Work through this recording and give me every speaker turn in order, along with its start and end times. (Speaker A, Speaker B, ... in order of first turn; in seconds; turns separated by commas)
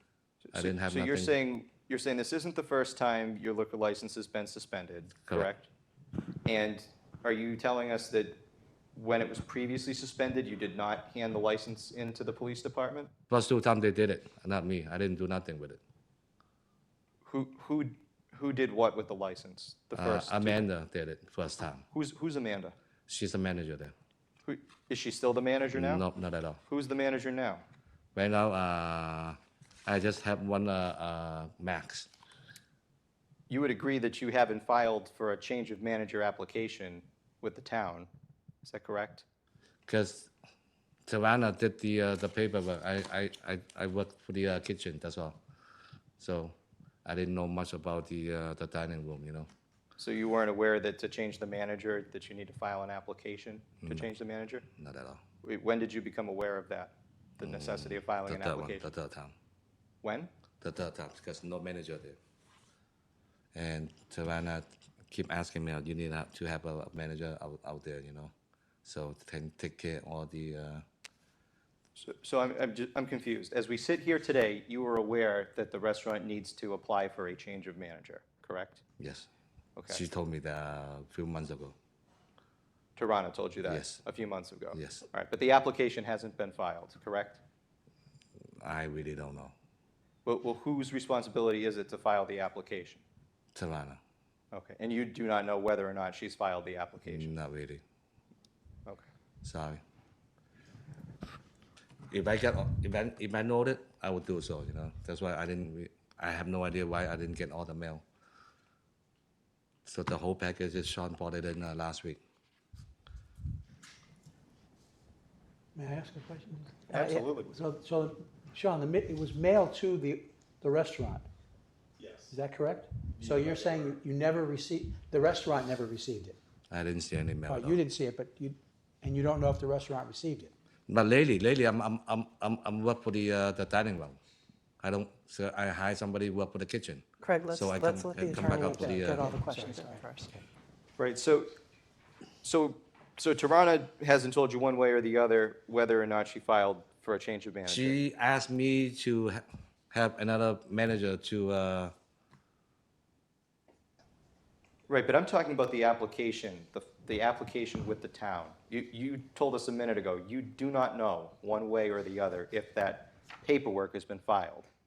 Speaker A: 0.5-5.7, Speaker B: 0.5-1.3, Speaker A: 6.5-8.4, Speaker A: 8.9-13.1, Speaker B: 13.3-15.8, Speaker A: 17.3-20.6, Speaker B: 19.9-21.9, Speaker A: 21.9-22.8, Speaker B: 23.1-23.9, Speaker A: 24.5-26.1, Speaker B: 25.7-26.6, Speaker A: 26.7-27.6, Speaker B: 28.1-32.1, Speaker A: 33.5-38.1, Speaker A: 38.6-39.2, Speaker B: 39.9-40.3, Speaker B: 41.1-45.4, Speaker B: 46.2-49.5, Speaker A: 50.0-54.6, Speaker B: 54.7-55.2, Speaker A: 55.4-58.9, Speaker B: 57.4-59.3, Speaker A: 60.0-60.3, Speaker B: 60.6-62.2, Speaker B: 63.5-68.3, Speaker B: 68.8-70.8, Speaker A: 72.0-78.8, Speaker B: 79.0-79.3, Speaker B: 79.9-81.8, Speaker A: 83.0-87.4, Speaker B: 83.7-84.0, Speaker B: 84.7-85.0, Speaker B: 88.6-89.5, Speaker A: 90.3-93.0, Speaker B: 93.5-94.0, Speaker A: 94.5-97.3, Speaker B: 97.1-97.8, Speaker B: 99.4-99.8, Speaker B: 102.1-108.0, Speaker B: 109.8-112.2, Speaker C: 115.8-121.2, Speaker A: 116.9-117.7, Speaker C: 122.3-126.4, Speaker B: 126.7-127.8, Speaker C: 127.5-130.5, Speaker B: 130.9-134.2, Speaker B: 134.8-139.3, Speaker D: 137.2-140.4, Speaker C: 138.6-140.1, Speaker A: 141.0-141.5, Speaker A: 142.4-148.0, Speaker B: 147.7-151.9, Speaker A: 154.9-164.7